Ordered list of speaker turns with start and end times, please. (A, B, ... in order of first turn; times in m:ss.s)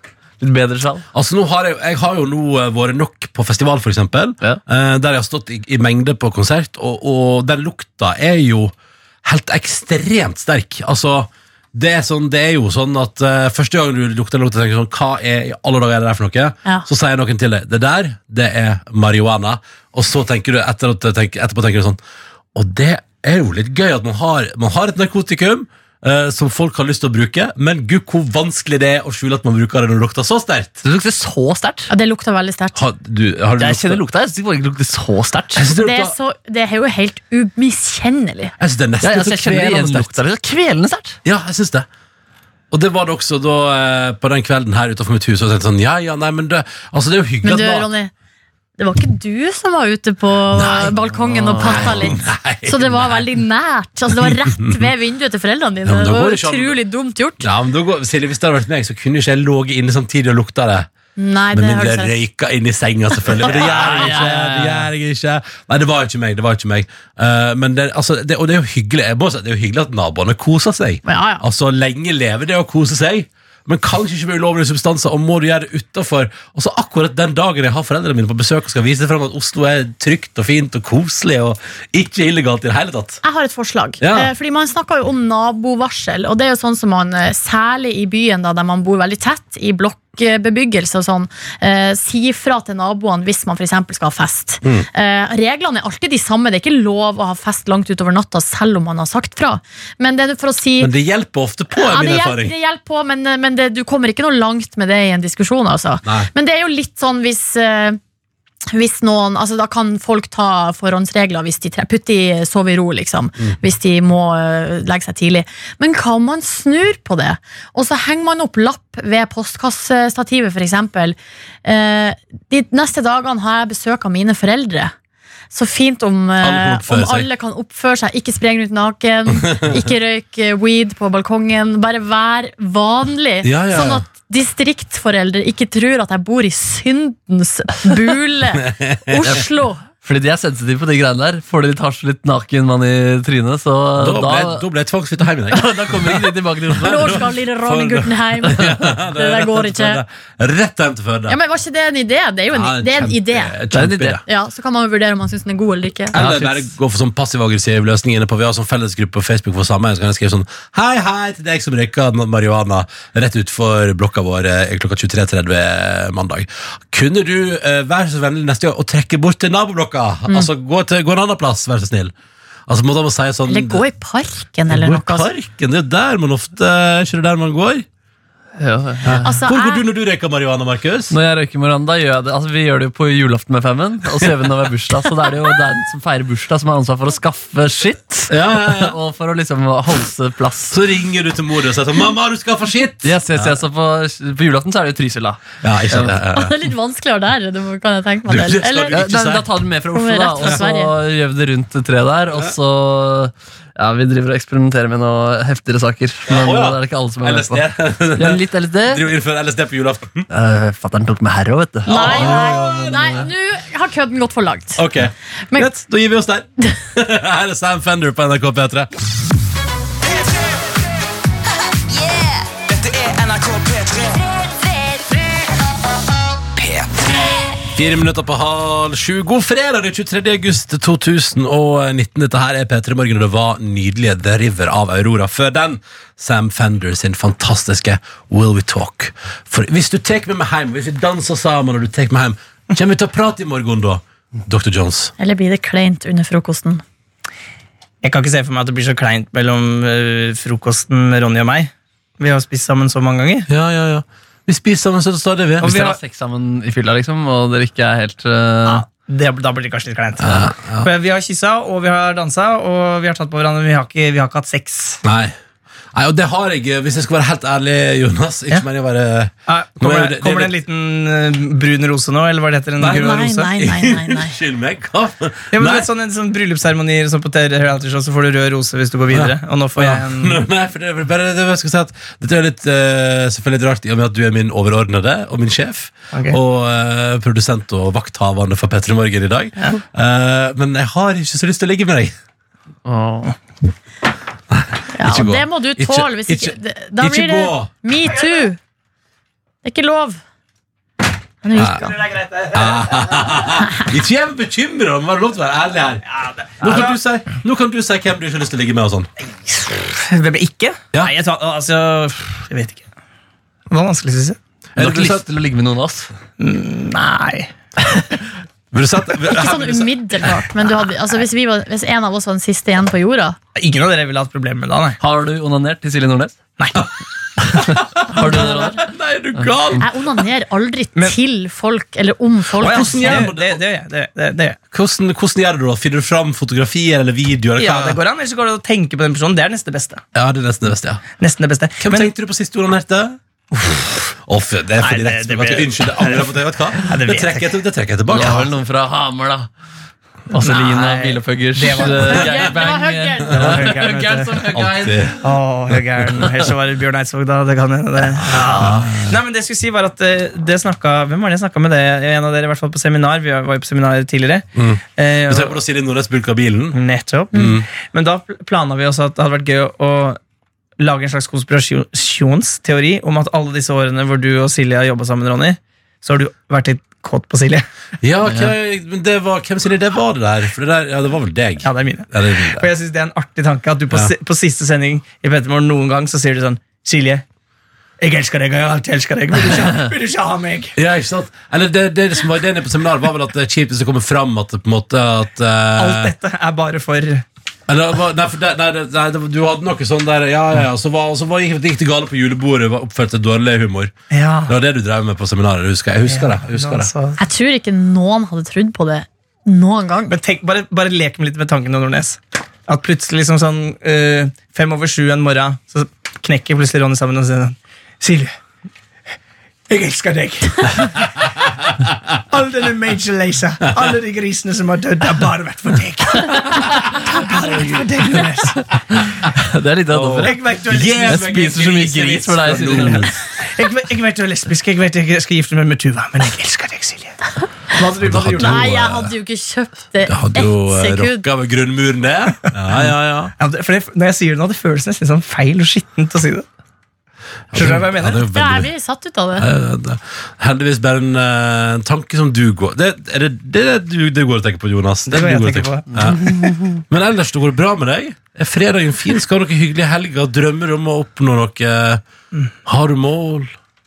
0:00.4-0:01.1 A
0:01.1-0:22.0 B
0:22.6-0:30.8 B
0:30.8-0:31.9 A
0:31.9-0:32.8 C
0:32.8-0:34.0 B
0:33.6-0:35.7 A
0:35.6-0:36.2 B
0:35.7-0:38.5 C
0:38.6-0:40.1 B
0:39.0-0:41.2 A
0:41.2-0:41.9 B
0:42.7-0:47.9 B
0:47.4-0:48.1 C
0:48.8-0:57.5 C
0:50.5-0:51.0 B
0:51.3-0:52.0 A
0:51.5-0:53.3 B
0:54.1-0:54.9 B
0:55.8-0:56.8 B
0:57.4-1:00.9 B
1:01.2-1:02.1 C
1:01.5-1:23.2 B
1:03.3-1:03.9 C
1:03.6-1:04.9 A
1:11.0-1:11.4 C
1:23.2-1:40.9 C
1:24.0-1:24.3 B
1:40.8-1:42.6 B
1:41.8-1:48.0 C
1:46.0-1:46.3 B
1:48.7-2:04.9 C
2:05.5-2:19.8 C
2:06.4-2:07.3 B
2:09.4-2:09.8 B
2:13.4-2:14.0 B
2:18.6-2:19.4 B
2:20.0-2:24.6 A
2:24.0-2:31.4 B
2:25.5-2:27.3 A
2:26.8-2:30.0 C
2:31.3-2:33.5 C
2:32.5-2:34.2 B
2:33.7-2:34.2 A
2:34.3-2:36.2 C
2:36.1-2:52.1 B
2:36.1-2:36.7 A
2:52.7-2:53.8 B
2:53.5-2:55.3 C
2:54.7-2:57.9 B
2:58.6-2:59.3 A
2:59.0-3:01.2 B
2:59.2-2:59.8 C
3:01.1-3:10.8 A
3:08.3-3:09.0 B
3:10.7-3:13.6 B
3:13.0-3:16.1 A
3:15.6-3:16.6 B
3:16.3-3:19.0 C
3:18.3-3:19.5 B
3:18.9-3:29.1 A
3:19.9-3:20.9 C
3:26.3-3:30.3 B
3:30.3-3:32.4 A
3:31.9-3:33.3 B
3:31.9-3:34.8 C
3:34.8-3:38.9 B
3:42.7-3:44.2 D
3:46.6-3:46.8 D
3:47.8-4:05.1 B
4:05.2-4:06.8 C
4:08.0-4:13.5 D
4:13.5-4:15.8 B
4:15.6-4:16.0 D
4:15.6-4:18.8 A
4:18.6-4:25.0 D
4:20.2-4:20.9 B
4:25.0-4:25.4 B
4:25.9-4:30.6 B
4:29.5-4:33.4 D
4:32.8-4:35.9 B
4:32.8-4:34.4 C
4:35.5-4:40.4 D
4:39.1-4:52.1 B
4:46.1-4:46.4 D
4:52.9-4:53.3 A
4:54.5-4:57.7 B
4:55.0-4:58.6 C
4:58.2-4:58.4 D
4:59.6-5:00.2 C
5:01.4-5:02.0 C
5:01.6-5:01.8 B
5:01.7-5:03.4 D
5:02.5-5:06.0 B
5:06.1-5:07.0 D
5:06.6-5:09.1 B
5:09.4-5:12.8 D
5:13.7-5:14.4 D
5:14.8-5:15.2 B
5:14.8-5:16.1 A
5:16.4-5:17.5 D
5:18.7-5:19.9 B
5:19.3-5:23.4 C
5:23.6-5:25.0 D
5:25.0-5:26.4 A
5:26.6-5:26.9 D
5:27.6-5:29.9 B
5:27.7-5:28.8 A
5:28.2-5:28.7 C
5:29.4-5:29.7 A
5:29.8-5:33.3 C
5:32.6-5:34.6 D
5:32.6-5:33.6 B
5:34.7-5:38.0 B
5:37.6-5:40.0 D
5:40.1-5:41.0 B
5:41.2-5:42.1 D
5:41.8-5:43.2 B
5:43.6-5:44.0 D
5:44.3-5:48.5 B
5:44.8-5:47.6 D
5:48.1-5:49.5 A
5:48.1-5:48.5 D
5:50.3-5:55.2 A
5:50.4-5:52.5 D
5:52.0-5:53.3 C
5:53.3-5:54.5 D
5:54.5-5:55.2 B
5:55.2-6:05.6 D
5:58.4-5:59.1 B
6:04.6-6:06.8 B
6:06.7-6:10.2 D
6:07.3-6:07.7 B
6:10.8-6:17.7 D
6:18.0-6:22.7 B
6:18.3-6:18.5 A
6:21.6-6:27.2 D
6:28.0-6:30.8 D
6:30.8-6:36.1 B
6:35.8-6:37.2 D
6:37.7-6:43.9 B
6:44.1-6:44.6 D
6:44.5-6:46.9 B
6:46.1-6:47.2 D
6:47.2-6:50.2 C
6:50.1-6:58.3 D
6:59.7-7:01.3 D
7:02.3-7:08.6 D
7:09.0-7:10.4 A
7:09.9-7:13.2 B
7:10.2-7:11.4 D
7:11.1-7:13.1 A
7:13.5-7:17.2 D
7:17.7-7:18.7 D
7:18.0-7:19.1 B
7:18.3-7:21.2 C
7:20.1-7:23.3 B
7:23.4-7:26.5 D
7:27.5-7:28.7 B
7:27.5-7:28.3 D
7:28.3-7:29.5 C
7:29.4-7:42.0 B
7:35.1-7:36.5 D
7:36.0-7:36.8 A
7:42.6-7:43.5 B